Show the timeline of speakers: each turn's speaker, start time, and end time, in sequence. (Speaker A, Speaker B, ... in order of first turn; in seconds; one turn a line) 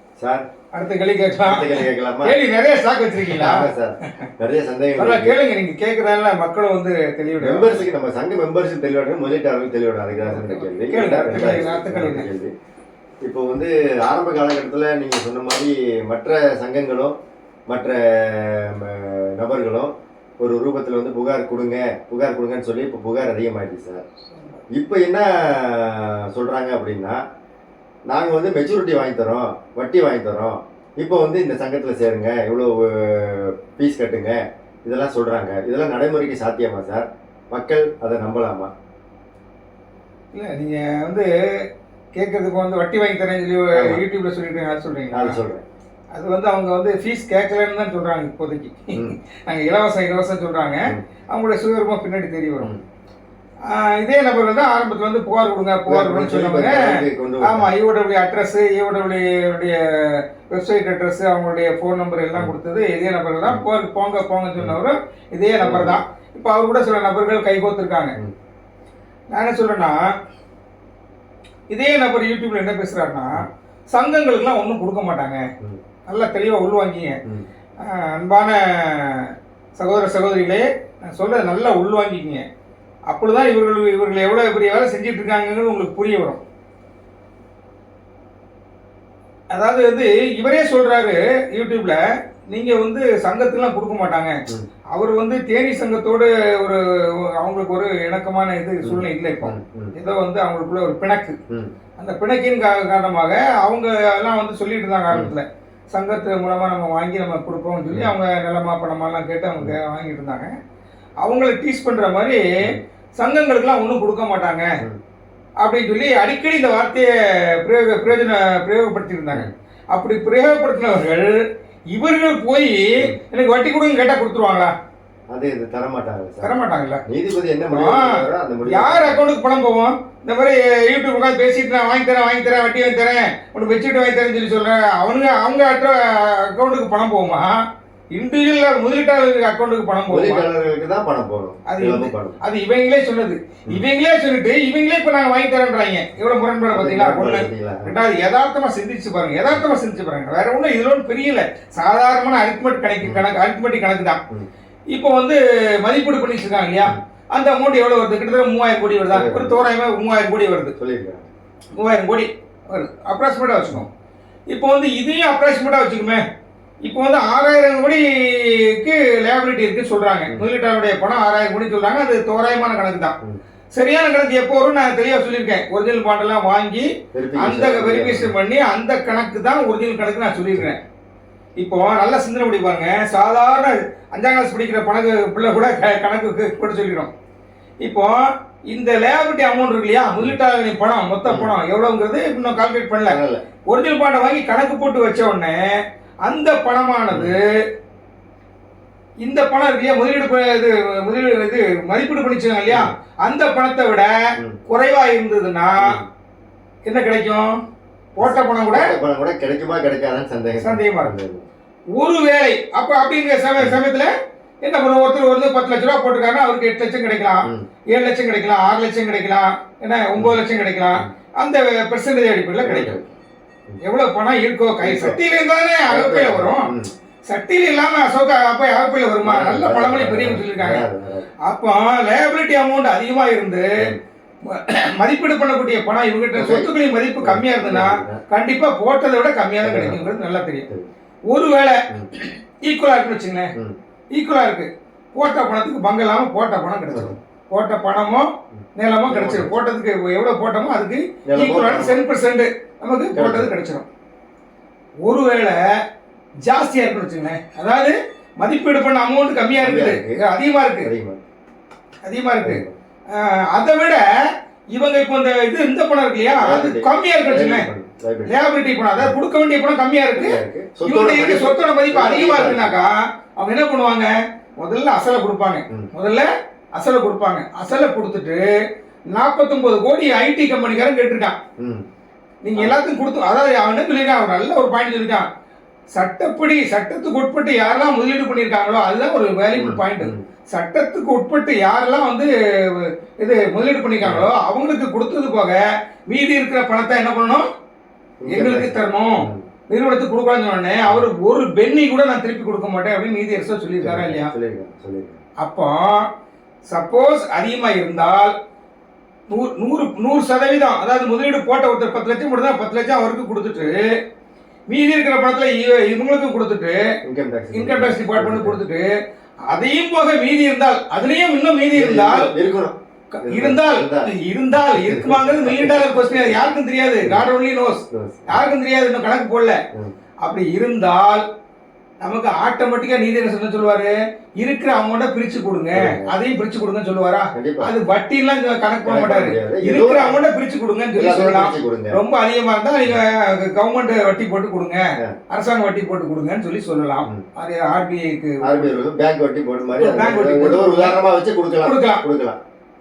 Speaker A: 0.2-0.5
Speaker B: 0.7-4.3
Speaker A: 1.4-2.4
Speaker A: 3.2-5.4
Speaker B: 5.0-7.8
Speaker A: 7.4-12.5
Speaker B: 10.2-12.3
Speaker A: 13.2-17.2
Speaker A: 17.7-24.1
Speaker B: 24.3-24.6
Speaker A: 24.7-27.2
Speaker A: 28.1-38.7
Speaker B: 40.3-41.3
Speaker B: 42.1-45.4
Speaker A: 43.8-44.0
Speaker A: 45.1-45.6
Speaker B: 46.1-52.7
Speaker B: 53.7-68.2
Speaker A: 55.9-57.7
Speaker A: 65.6-66.0
Speaker B: 69.3-70.0
Speaker B: 71.7-75.4
Speaker B: 76.1-77.2
Speaker B: 77.8-82.5
Speaker B: 83.1-86.4
Speaker B: 89.5-94.3
Speaker B: 94.9-101.4
Speaker A: 98.8-99.9
Speaker B: 102.0-110.5
Speaker A: 105.1-105.4
Speaker B: 111.2-114.7
Speaker B: 115.6-121.4
Speaker B: 121.9-124.7
Speaker A: 125.3-129.2
Speaker B: 126.4-127.0
Speaker B: 127.7-137.6
Speaker B: 138.1-140.4
Speaker A: 140.1-142.4
Speaker B: 141.7-154.2
Speaker A: 146.7-148.0
Speaker A: 153.0-153.4
Speaker B: 154.9-160.7
Speaker A: 159.1-159.6
Speaker A: 160.8-161.3
Speaker B: 161.8-163.9
Speaker B: 164.5-166.2
Speaker B: 166.8-173.2
Speaker B: 173.8-180.8
Speaker A: 177.1-178.3
Speaker B: 181.6-187.1
Speaker B: 187.8-193.2
Speaker A: 191.2-191.5
Speaker A: 193.1-193.4
Speaker B: 193.7-195.7
Speaker B: 196.2-197.5
Speaker A: 197.1-197.4
Speaker B: 199.2-204.1
Speaker A: 202.7-202.9
Speaker B: 204.7-206.0
Speaker A: 205.8-206.1
Speaker B: 206.9-207.5
Speaker B: 208.2-208.9
Speaker A: 208.2-211.5
Speaker B: 210.6-211.1
Speaker B: 212.0-214.1
Speaker B: 214.6-223.0
Speaker A: 222.6-223.8
Speaker B: 223.8-226.7
Speaker A: 224.8-225.2
Speaker A: 225.9-226.9
Speaker B: 227.3-230.8
Speaker A: 229.2-231.3
Speaker B: 231.4-233.8
Speaker B: 234.4-240.7
Speaker A: 236.3-238.2
Speaker A: 239.6-240.1
Speaker B: 241.3-243.5
Speaker B: 244.1-253.8
Speaker A: 246.9-247.2
Speaker A: 248.6-249.5
Speaker A: 251.3-252.0
Speaker A: 253.1-253.5
Speaker B: 255.1-255.6
Speaker B: 256.4-260.9
Speaker A: 259.6-260.2
Speaker A: 260.8-261.2
Speaker B: 262.0-267.7
Speaker A: 262.4-262.8
Speaker A: 266.4-268.3
Speaker B: 268.3-278.4
Speaker A: 270.1-272.8
Speaker B: 279.1-281.4
Speaker A: 281.6-281.9
Speaker B: 282.4-285.3
Speaker B: 285.9-297.5
Speaker A: 289.6-290.2
Speaker A: 294.0-294.3
Speaker A: 298.2-299.5
Speaker B: 298.3-304.3
Speaker A: 303.8-305.2
Speaker B: 305.4-306.1
Speaker B: 306.7-308.3
Speaker B: 309.3-313.8
Speaker B: 314.7-316.8
Speaker A: 317.0-318.6
Speaker B: 317.5-318.9
Speaker B: 319.5-322.3
Speaker A: 321.7-327.3
Speaker B: 323.1-329.6
Speaker A: 327.9-328.5
Speaker B: 330.2-331.2
Speaker B: 332.0-348.8
Speaker A: 335.7-336.1
Speaker A: 337.3-337.7
Speaker A: 338.9-340.2
Speaker A: 341.0-342.0
Speaker A: 348.4-352.4
Speaker B: 349.8-351.0
Speaker B: 351.6-352.0